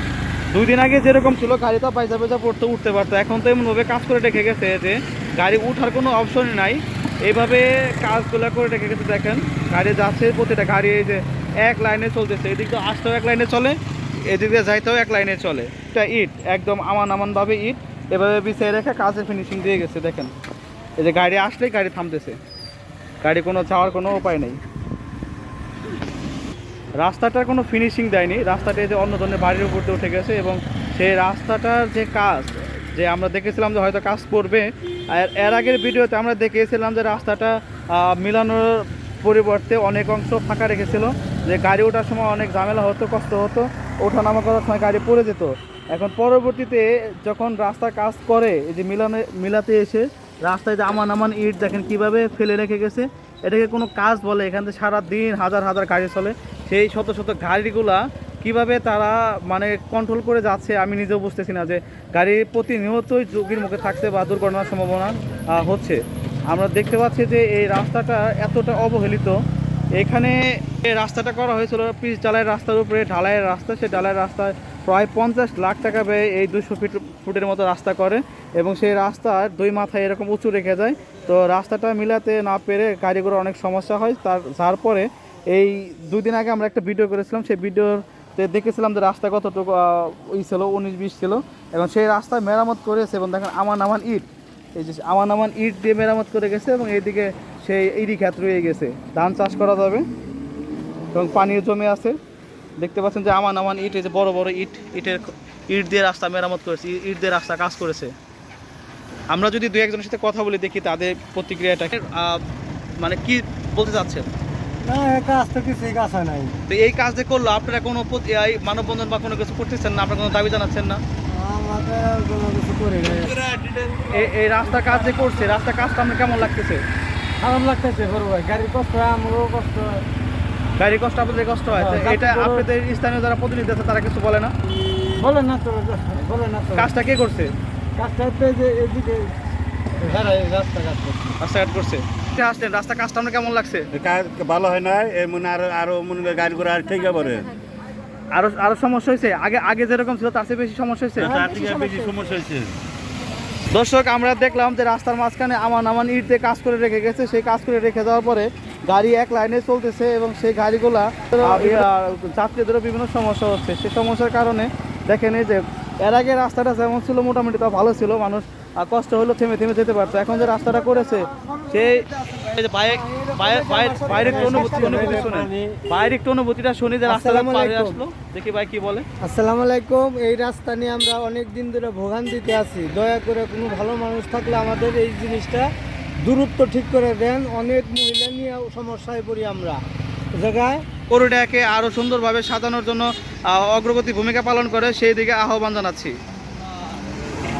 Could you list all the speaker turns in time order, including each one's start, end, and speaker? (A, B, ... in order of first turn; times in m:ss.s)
0:00.5-0:20.3 A
0:21.0-0:22.4 A
0:23.2-0:24.6 A
0:27.0-1:09.4 A
1:10.0-1:40.0 A
1:41.1-1:42.2 A
1:42.8-1:48.1 A
1:49.3-1:52.4 A
1:53.0-1:54.3 A
1:54.8-1:56.5 B
1:56.7-2:01.0 A
2:01.3-2:03.8 B
2:04.1-2:06.8 A
2:07.4-2:10.0 B
2:10.8-2:14.5 A
2:11.7-2:12.6 B
2:15.2-2:16.9 B
2:16.7-2:17.5 A
2:18.0-2:19.3 B
2:20.0-2:21.3 B
2:21.4-2:23.9 A
2:23.9-2:27.5 C
2:28.3-2:31.3 A
2:31.2-2:32.8 C
2:31.2-2:32.4 B
2:33.7-2:59.0 A
2:50.4-2:55.8 B
2:57.0-2:58.0 B
2:59.2-3:05.7 B
3:06.2-3:09.8 B
3:10.3-3:10.8 B
3:11.1-3:16.1 A